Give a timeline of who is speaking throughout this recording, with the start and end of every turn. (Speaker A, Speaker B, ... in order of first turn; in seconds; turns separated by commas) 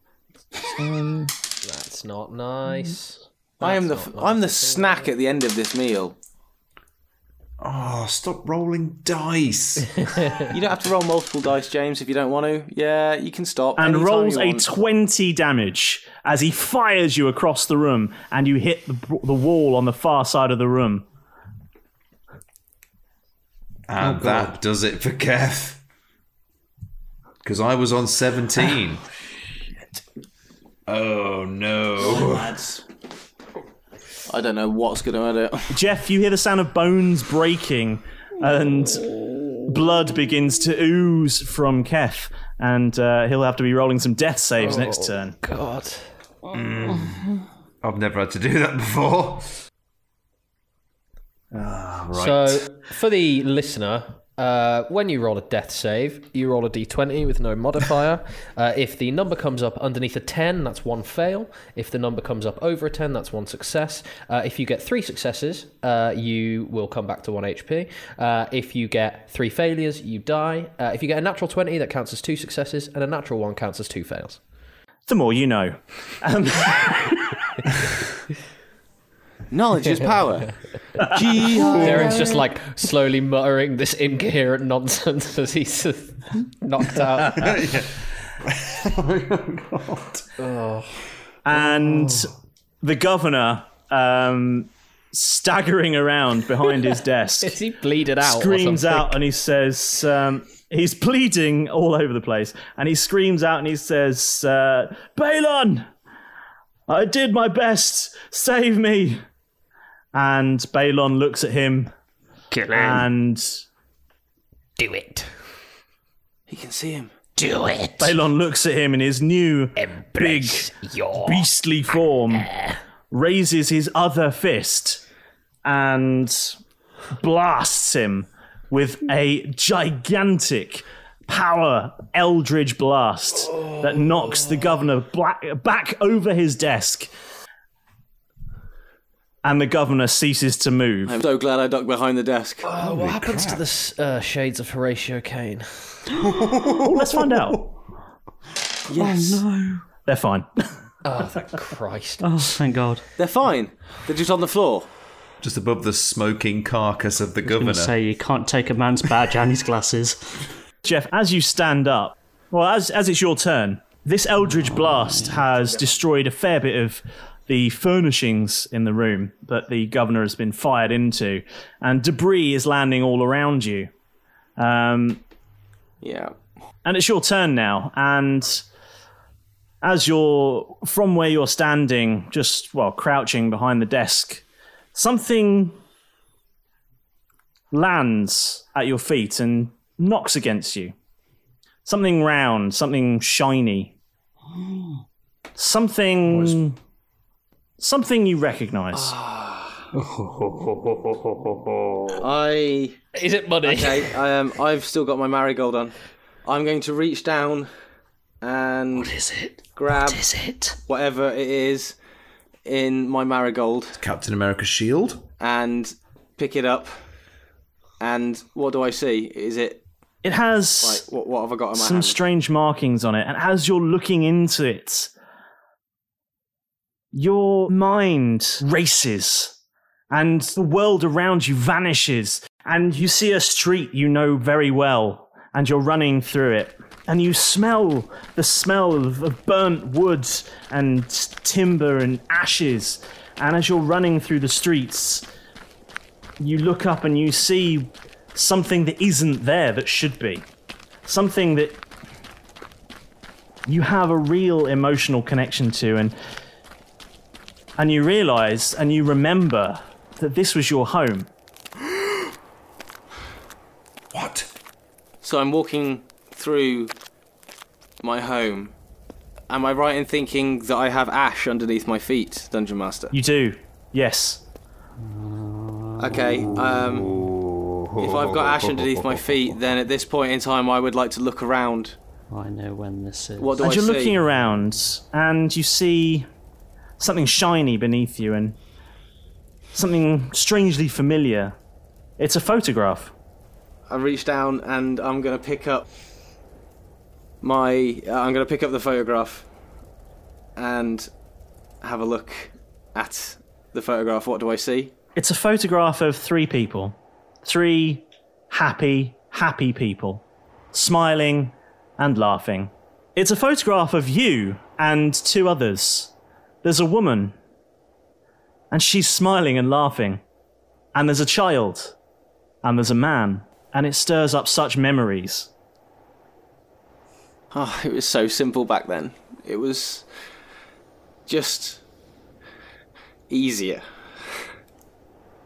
Speaker A: 0.7-1.3, Speaker B: 1.6-5.1, Speaker C: 3.6-6.2, Speaker D: 7.6-10.1, Speaker C: 10.5-14.7, Speaker A: 13.8-21.0, Speaker D: 23.9-25.8, Speaker D: 27.4-29.0, Speaker D: 30.9-32.6, Speaker C: 32.0-32.8, Speaker C: 34.3-35.7, Speaker A: 35.7-39.1, Speaker A: 39.6-45.4, Speaker B: 44.6-46.1, Speaker D: 46.5-49.5, Speaker D: 51.5-52.7, Speaker B: 52.1-74.4, Speaker A: 75.1-77.7, Speaker C: 79.5-82.4, Speaker B: 81.5-87.7, Speaker D: 81.6-82.0, Speaker D: 87.3-90.3, Speaker B: 90.4-90.9, Speaker A: 91.4-92.3, Speaker D: 91.8-92.3, Speaker A: 92.8-97.5, Speaker B: 97.4-99.1, Speaker A: 98.2-105.9, Speaker A: 106.9-109.2, Speaker A: 110.1-111.9, Speaker B: 112.5-113.1, Speaker A: 112.7-113.6, Speaker B: 114.8-115.3, Speaker C: 116.5-117.1, Speaker B: 117.4-118.1, Speaker A: 118.0-122.5, Speaker B: 119.8-121.5, Speaker B: 122.3-122.8, Speaker A: 123.1-125.0, Speaker A: 125.6-126.6, Speaker A: 127.2-137.1, Speaker A: 139.4-141.2, Speaker C: 141.1-142.6, Speaker B: 142.6-146.2, Speaker D: 142.8-143.6, Speaker D: 146.1-147.7, Speaker A: 146.6-147.6, Speaker C: 148.9-149.4, Speaker E: 148.9-149.8, Speaker A: 150.1-150.5, Speaker B: 151.0-152.2, Speaker E: 152.2-153.0, Speaker C: 153.2-154.9, Speaker D: 155.4-157.9, Speaker E: 157.5-160.4, Speaker A: 160.8-173.9, Speaker C: 165.7-165.9, Speaker A: 174.6-175.2, Speaker C: 176.0-176.3, Speaker A: 176.8-178.6, Speaker A: 179.8-184.4, Speaker A: 184.9-185.8, Speaker A: 187.7-190.9, Speaker A: 191.8-193.9, Speaker A: 195.6-196.8, Speaker A: 197.8-199.1, Speaker C: 199.0-199.7, Speaker D: 200.2-200.5, Speaker C: 202.2-203.0, Speaker B: 203.1-204.2, Speaker C: 203.6-207.7, Speaker C: 208.4-209.1, Speaker C: 209.8-210.3, Speaker B: 210.1-210.8, Speaker C: 210.8-211.9, Speaker C: 212.7-214.0, Speaker D: 214.0-215.2, Speaker C: 215.4-216.9, Speaker C: 218.0-219.8, Speaker A: 220.2-221.0, Speaker C: 220.8-222.2, Speaker A: 221.7-225.1, Speaker A: 227.1-229.5, Speaker A: 230.1-245.2, Speaker A: 246.4-250.4, Speaker A: 251.1-251.8, Speaker A: 253.7-256.1, Speaker A: 257.8-261.3, Speaker D: 264.1-264.5, Speaker C: 265.2-266.9, Speaker C: 268.0-268.7, Speaker C: 269.5-273.1, Speaker A: 273.1-274.4, Speaker E: 275.1-276.0, Speaker C: 276.0-277.2, Speaker D: 276.5-279.7, Speaker C: 278.0-281.9, Speaker E: 282.3-283.6, Speaker C: 283.4-284.2, Speaker A: 283.6-286.3, Speaker A: 287.0-288.6, Speaker A: 289.7-291.5, Speaker A: 292.2-293.1, Speaker C: 293.9-295.9, Speaker C: 297.4-299.4, Speaker C: 300.6-301.1, Speaker C: 301.8-304.9, Speaker A: 305.1-316.1, Speaker A: 316.6-317.4, Speaker A: 318.7-320.2, Speaker A: 320.9-321.9, Speaker A: 322.6-325.5, Speaker C: 327.5-330.0, Speaker C: 331.3-331.8, Speaker C: 333.3-333.8